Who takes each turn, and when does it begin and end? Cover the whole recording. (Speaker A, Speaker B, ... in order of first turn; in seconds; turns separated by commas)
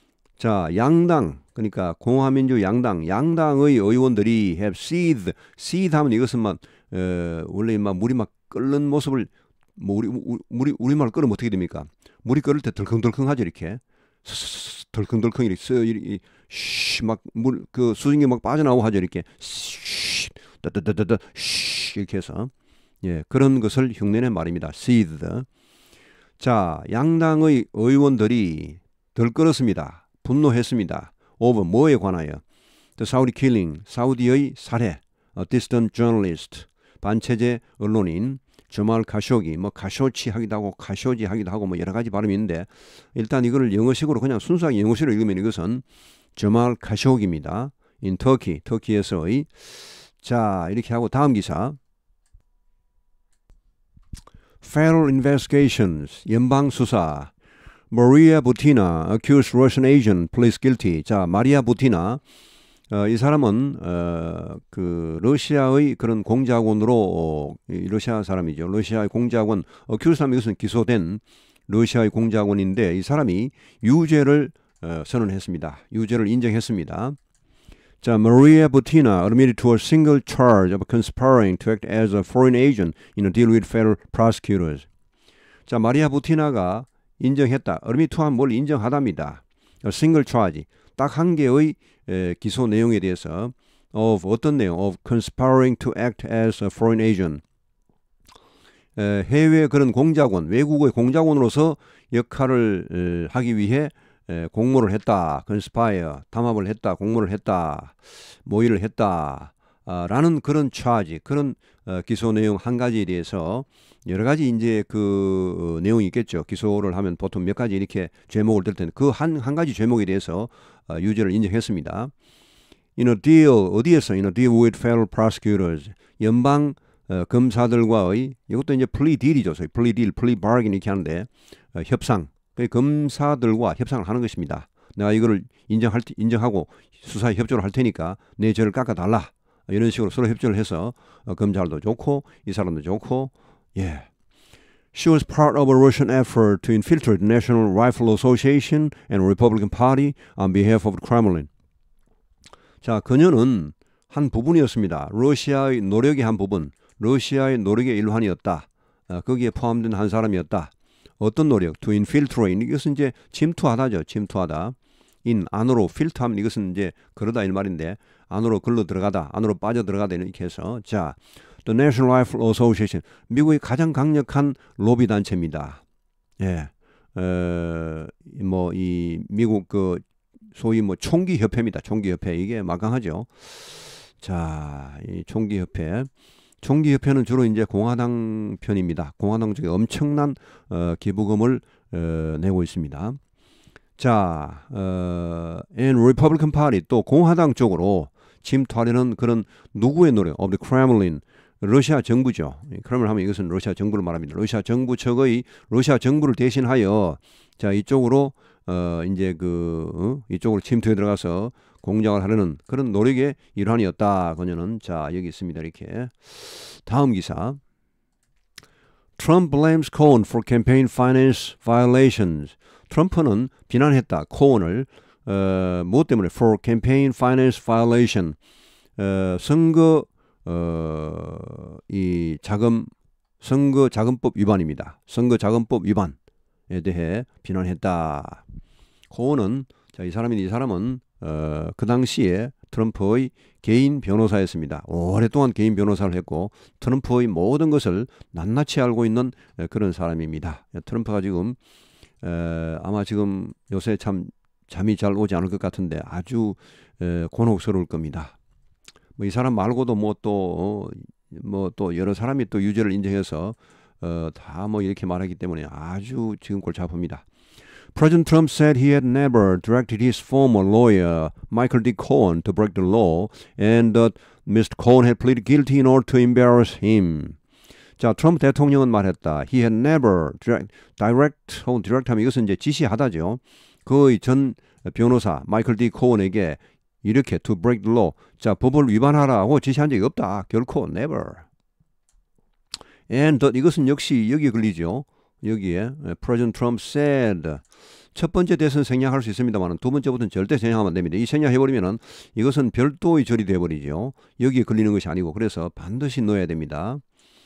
Speaker A: 0.4-25.5, Speaker A: 26.4-32.4, Speaker A: 33.0-45.8, Speaker A: 46.4-49.5, Speaker A: 50.2-51.8, Speaker A: 54.6-57.3, Speaker A: 57.9-62.2, Speaker A: 62.9-77.2, Speaker A: 78.0-84.8, Speaker A: 85.7-97.4, Speaker A: 99.0-122.1, Speaker A: 123.0-144.1, Speaker A: 144.9-151.5, Speaker A: 152.8-175.8, Speaker A: 176.4-180.0, Speaker A: 180.5-186.1, Speaker A: 186.6-193.2, Speaker A: 194.0-217.6, Speaker A: 219.2-228.3, Speaker A: 229.0-236.1, Speaker A: 236.7-238.4, Speaker A: 239.1-251.6, Speaker A: 252.2-258.4, Speaker A: 259.2-267.2, Speaker A: 267.9-277.4, Speaker A: 278.0-291.4, Speaker A: 293.1-297.6, Speaker A: 298.1-307.0